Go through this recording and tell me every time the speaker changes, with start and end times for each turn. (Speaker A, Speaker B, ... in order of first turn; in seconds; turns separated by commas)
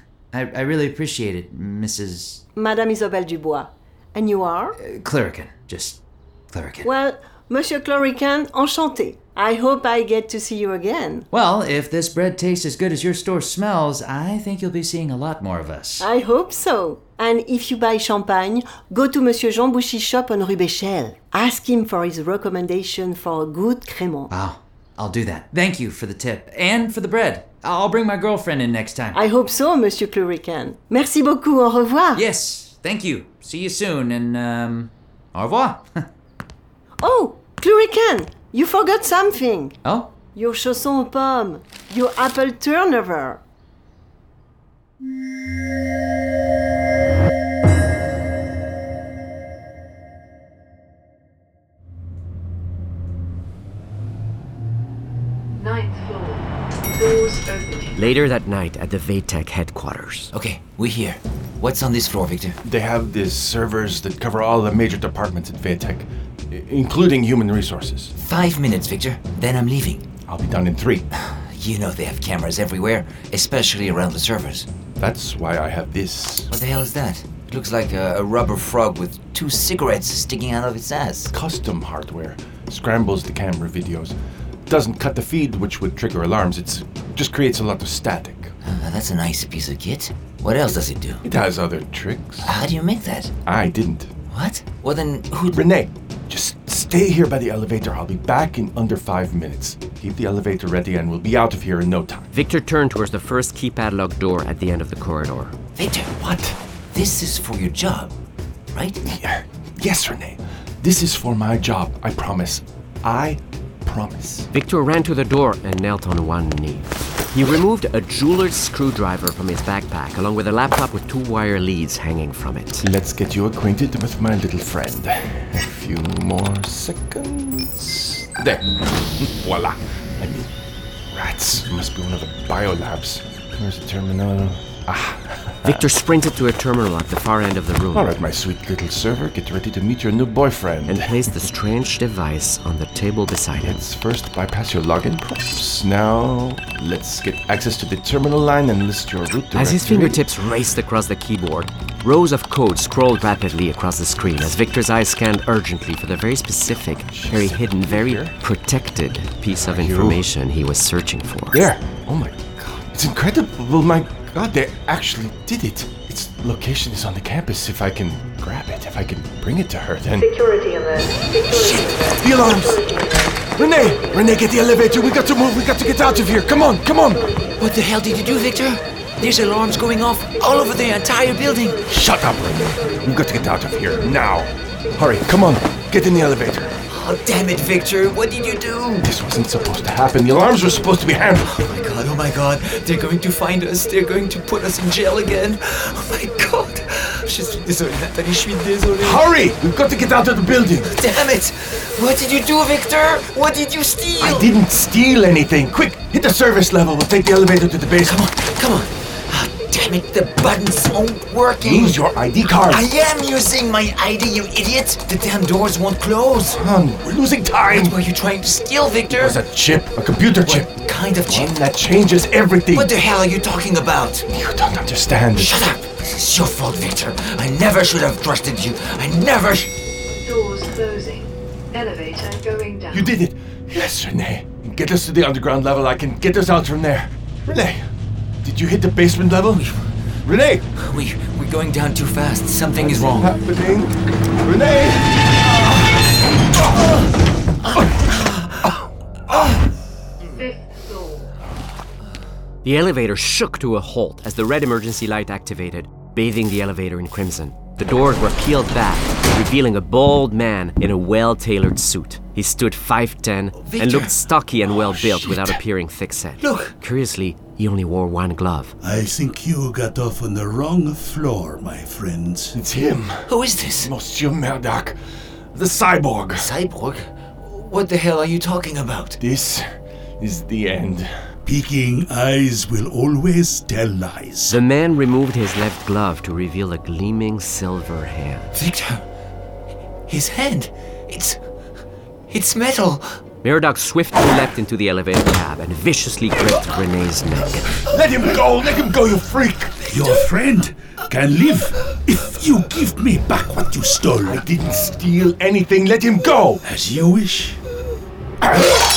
Speaker A: 0.3-2.4, Speaker B: 2.5-4.8, Speaker A: 4.8-6.9, Speaker B: 6.8-11.3, Speaker A: 11.3-16.1, Speaker B: 16.0-24.3, Speaker A: 24.3-29.2, Speaker B: 29.1-32.2, Speaker A: 32.1-36.1, Speaker B: 37.0-39.8, Speaker A: 39.8-40.1, Speaker B: 40.3-43.4, Speaker C: 55.6-58.1, Speaker D: 57.9-60.3, Speaker E: 60.3-62.6, Speaker F: 62.6-68.1, Speaker E: 68.2-70.1, Speaker F: 70.2-71.0, Speaker E: 71.1-74.7, Speaker F: 75.0-76.5, Speaker E: 76.5-81.3, Speaker F: 81.3-84.1, Speaker F: 84.7-88.5, Speaker E: 88.6-91.2, Speaker F: 91.2-92.5, Speaker E: 92.4-93.3, Speaker F: 93.5-94.1, Speaker E: 94.3-95.7, Speaker F: 95.5-102.3, Speaker D: 102.3-105.5, Speaker E: 105.8-108.1, Speaker E: 108.7-109.0, Speaker F: 109.0-114.5, Speaker D: 114.5-122.9, Speaker F: 122.8-130.5, Speaker F: 131.1-135.8, Speaker D: 135.6-138.2, Speaker F: 137.9-141.1, Speaker D: 140.8-143.8, Speaker F: 143.6-150.2, Speaker D: 149.5-161.7, Speaker F: 157.1-158.3, Speaker F: 159.5-160.2, Speaker F: 161.5-170.3, Speaker C: 170.2-174.4, Speaker E: 171.5-172.0, Speaker F: 172.1-172.9, Speaker F: 173.5-177.4, Speaker E: 177.6-181.8, Speaker F: 181.8-186.8, Speaker E: 186.9-189.1, Speaker F: 189.0-191.5, Speaker E: 191.4-199.3, Speaker F: 199.0-200.9, Speaker E: 200.8-204.5, Speaker F: 204.2-208.3, Speaker E: 208.1-212.0, Speaker F: 211.6-212.8, Speaker E: 212.7-216.7, Speaker F: 216.5-217.9, Speaker E: 217.7-219.4, Speaker F: 219.1-222.9, Speaker E: 220.3-221.6, Speaker E: 222.7-224.2, Speaker F: 224.3-225.6, Speaker E: 225.3-229.7, Speaker C: 230.2-233.1, Speaker F: 232.9-237.8, Speaker F: 238.4-239.7, Speaker F: 240.2-240.6, Speaker E: 240.8-243.4, Speaker F: 242.7-245.1, Speaker E: 247.7-248.6, Speaker C: 250.3-251.3, Speaker D: 252.6-268.7, Speaker E: 263.6-264.1, Speaker F: 264.7-265.6, Speaker E: 266.4-266.7, Speaker G: 268.8-272.6, Speaker F: 272.5-273.3, Speaker E: 273.3-273.9, Speaker F: 273.8-275.0, Speaker F: 275.5-276.5, Speaker E: 276.4-279.2, Speaker F: 279.2-279.6, Speaker F: 280.2-281.1, Speaker G: 281.4-284.6, Speaker D: 284.5-288.5, Speaker E: 288.5-289.0, Speaker E: 290.1-291.4, Speaker E: 292.3-293.1, Speaker D: 293.4-297.8, Speaker F: 297.8-299.8, Speaker G: 299.9-304.4, Speaker F: 304.3-306.6, Speaker G: 306.6-307.6